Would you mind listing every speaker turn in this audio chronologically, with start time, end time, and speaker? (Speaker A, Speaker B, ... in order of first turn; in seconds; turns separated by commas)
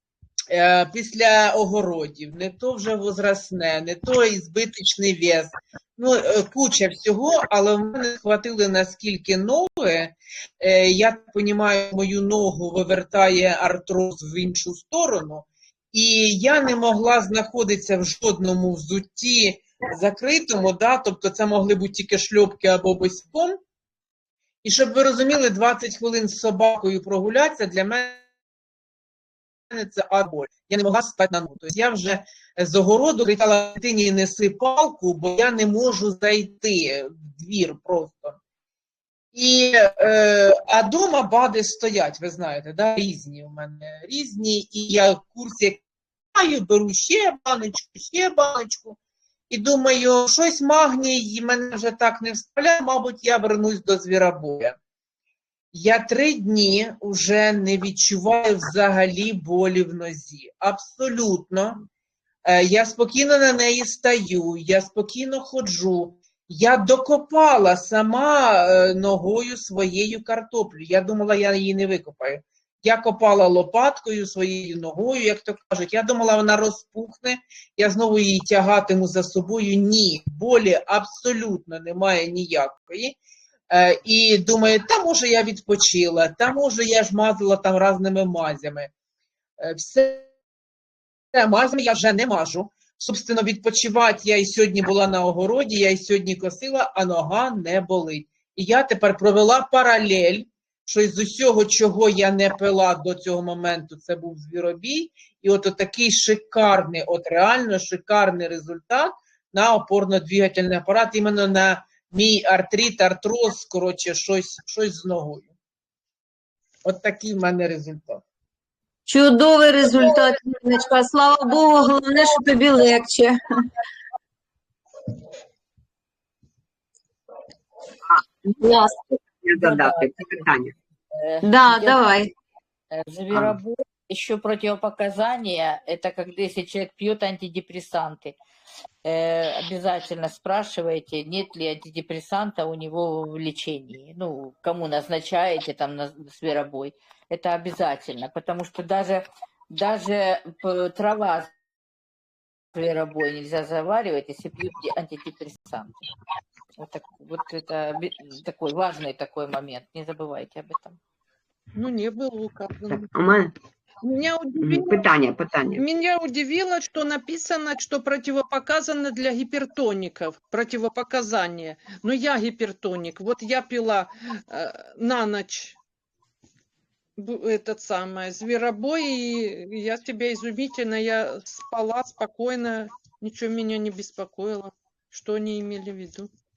Speaker A: 0.5-23.6, Speaker A: 24.6-28.2, Speaker A: 29.7-38.4, Speaker A: 39.3-45.8, Speaker A: 46.3-49.0, Speaker A: 49.5-54.8, Speaker A: 55.7-61.9, Speaker A: 62.5-83.2, Speaker A: 83.7-88.9, Speaker A: 89.6-90.3, Speaker A: 91.3-115.5, Speaker A: 116.8-118.2, Speaker B: 119.1-123.7, Speaker B: 128.6-129.0, Speaker C: 129.4-130.7, Speaker D: 129.6-130.5, Speaker D: 131.1-132.0, Speaker B: 131.4-132.3, Speaker D: 132.9-138.4, Speaker D: 139.0-151.5, Speaker D: 152.7-156.0, Speaker D: 156.8-161.0, Speaker E: 161.8-163.1, Speaker C: 162.9-163.5, Speaker E: 164.0-165.0, Speaker C: 164.6-165.8, Speaker E: 165.8-175.8, Speaker E: 177.2-186.3